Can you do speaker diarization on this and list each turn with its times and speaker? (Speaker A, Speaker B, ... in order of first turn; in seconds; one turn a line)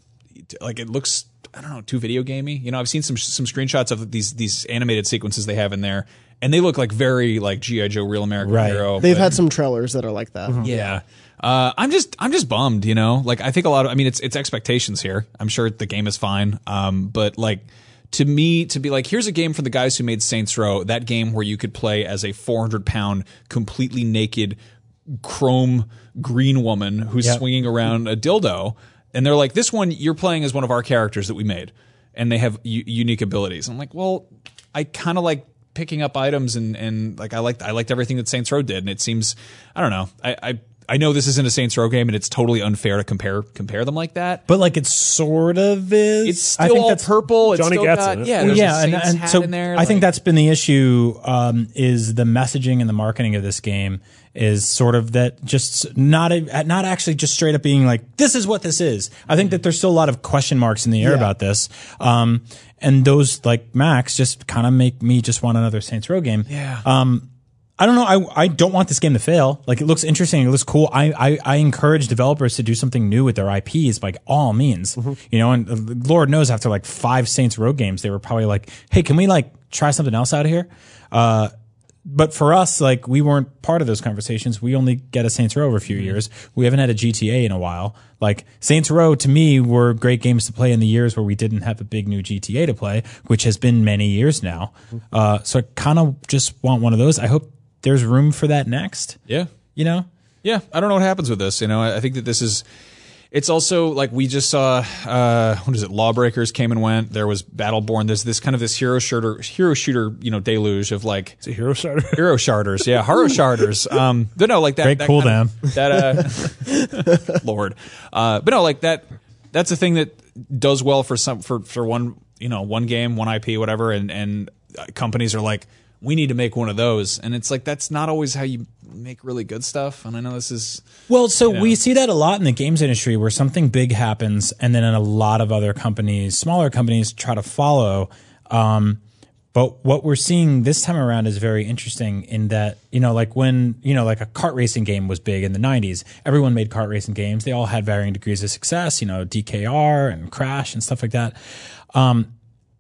Speaker A: 0.5-9.4
Speaker B: 8.4-9.0
Speaker C: 9.0-11.0
Speaker A: 10.6-24.6
Speaker A: 25.1-44.4
Speaker B: 44.5-47.1
Speaker A: 46.2-50.1
Speaker D: 47.4-48.7
Speaker B: 48.4-67.3
Speaker C: 61.0-61.3
Speaker A: 66.5-66.8
Speaker B: 67.8-81.5
Speaker B: 82.1-99.2
Speaker B: 99.8-100.1
Speaker A: 100.4-102.6
Speaker A: 103.3-111.4
Speaker D: 111.4-112.3
Speaker A: 112.1-130.8
Speaker B: 114.8-115.7
Speaker B: 131.1-139.0
Speaker A: 131.5-131.8
Speaker B: 139.5-151.3
Speaker B: 151.9-152.3